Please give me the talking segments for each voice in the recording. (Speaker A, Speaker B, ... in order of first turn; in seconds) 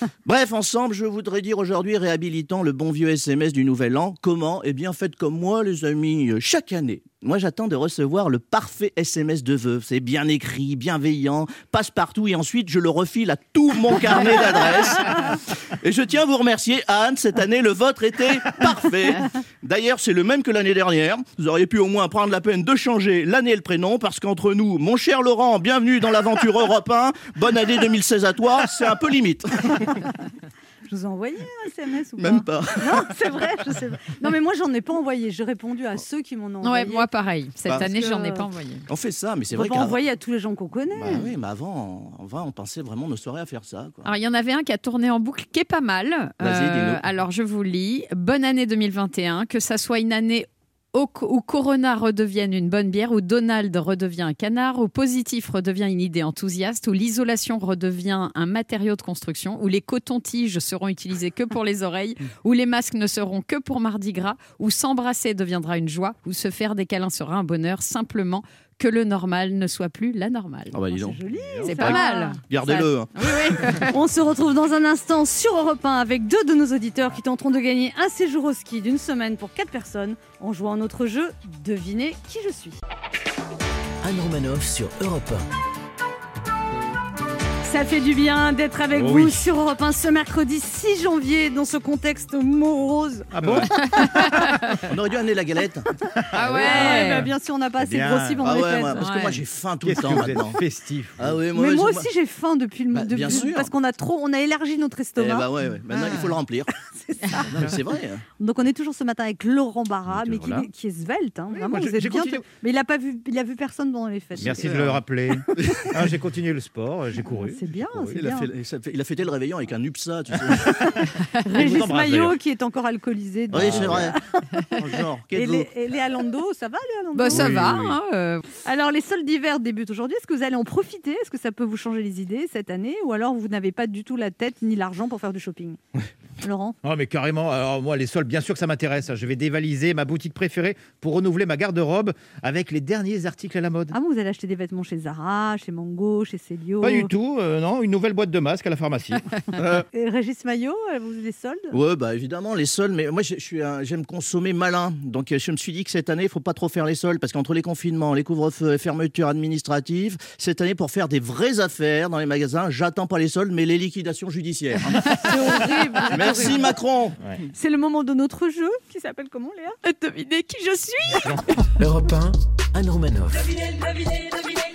Speaker A: 0.2-30.0, 32.2-33.1, 38.9-40.0, 41.0-44.1, 46.4-47.0, 70.7-71.2, 71.8-73.3, 94.9-95.9, 98.4-100.6, 101.2-102.1, 102.9-103.7, 105.2-106.7, 107.5-108.2, 114.5-115.0, 115.5-116.0, 118.1-121.0, 123.5-124.2, 124.7-125.7, 149.6-149.9, 151.7-165.2, 166.1-167.2
Speaker B: 30.9-37.1, 37.8-38.5, 39.5-41.3, 70.9-72.4, 73.9-82.8, 87.6-94.5, 96.5-99.2, 101.5-105.5, 106.8-107.8, 108.4-114.8, 117.3-118.5, 120.7-124.7, 125.3-127.8, 128.6-135.8, 136.4-136.8, 143.9-147.1, 149.9-151.8, 165.2-166.7, 167.5-169.8
Speaker C: 36.6-38.9, 44.0-70.8, 71.7-73.9, 93.9-94.8, 96.3-97.3, 98.9-99.4, 127.2-128.5, 165.0-166.0, 169.8-171.4
Speaker D: 71.3-71.8, 88.9-89.5, 93.3-93.7, 96.3-98.5, 99.8-101.4, 110.1-110.7, 111.5-112.5, 114.4-118.2, 121.5-122.4, 123.6-124.1, 127.3-128.0, 136.8-143.9, 146.8-149.2, 171.2-171.7
Speaker E: 84.0-85.5, 171.8-173.6